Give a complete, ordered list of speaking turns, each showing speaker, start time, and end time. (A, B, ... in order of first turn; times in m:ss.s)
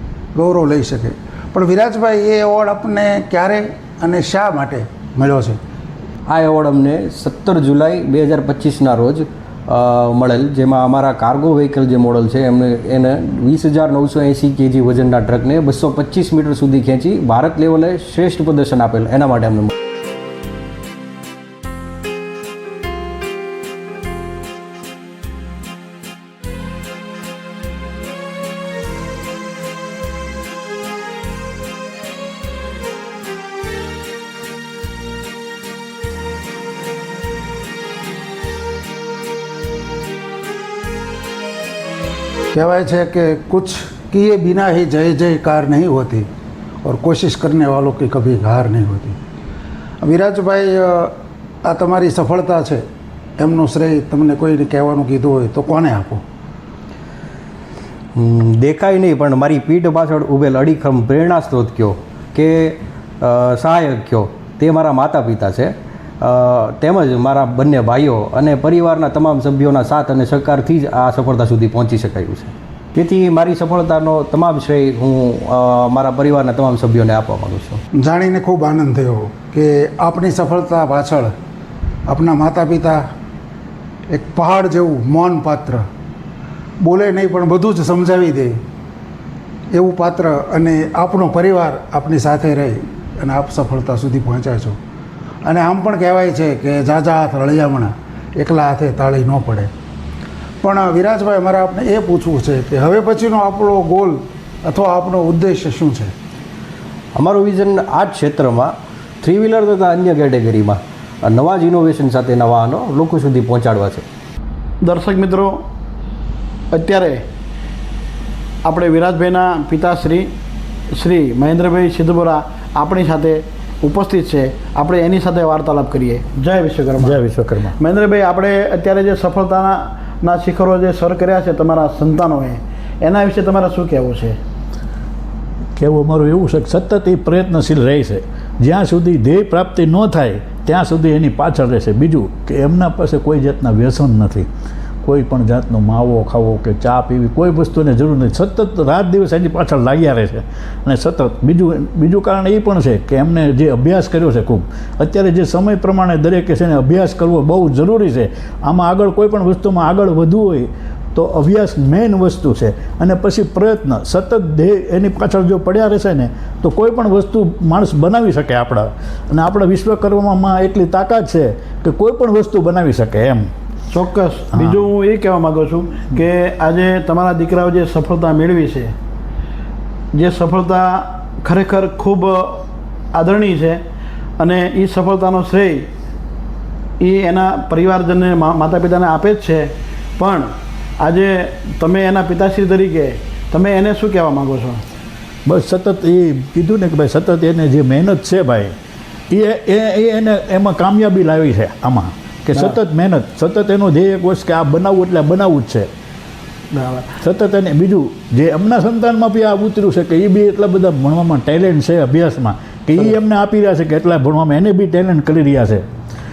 0:00.3-0:05.6 A
0:06.2-0:19.7 B
0:42.5-0:46.3 A
0:46.8-0:49.2 A
0:50.0-0:51.1 A
0:51.6-0:52.8 A
0:53.4-0:56.2 A
0:58.2-1:17.8 B
1:18.0-1:21.3 A
1:22.1-1:23.0 A
1:24.1-1:25.8 A
1:26.8-1:28.6 A
1:29.7-1:34.8 A
1:35.4-1:39.7 A
1:40.6-1:46.1 A
1:47.2-1:54.0 B
1:54.8-1:55.6 C
1:56.7-1:57.2 C
1:58.6-2:00.3 C
2:00.9-2:07.2 C
2:07.0-2:07.7 D
2:07.8-2:14.4 C
2:15.8-2:24.5 D
2:25.0-2:53.5 D
2:53.9-2:58.9 C
2:54.5-2:54.8 D
3:00.1-3:03.8 C
3:04.4-3:05.9 C
3:07.0-3:10.5 C
3:11.0-3:14.8 C
3:15.4-3:18.7 D
3:19.3-3:25.9 D
3:26.7-3:27.1 C
3:27.2-3:35.8 D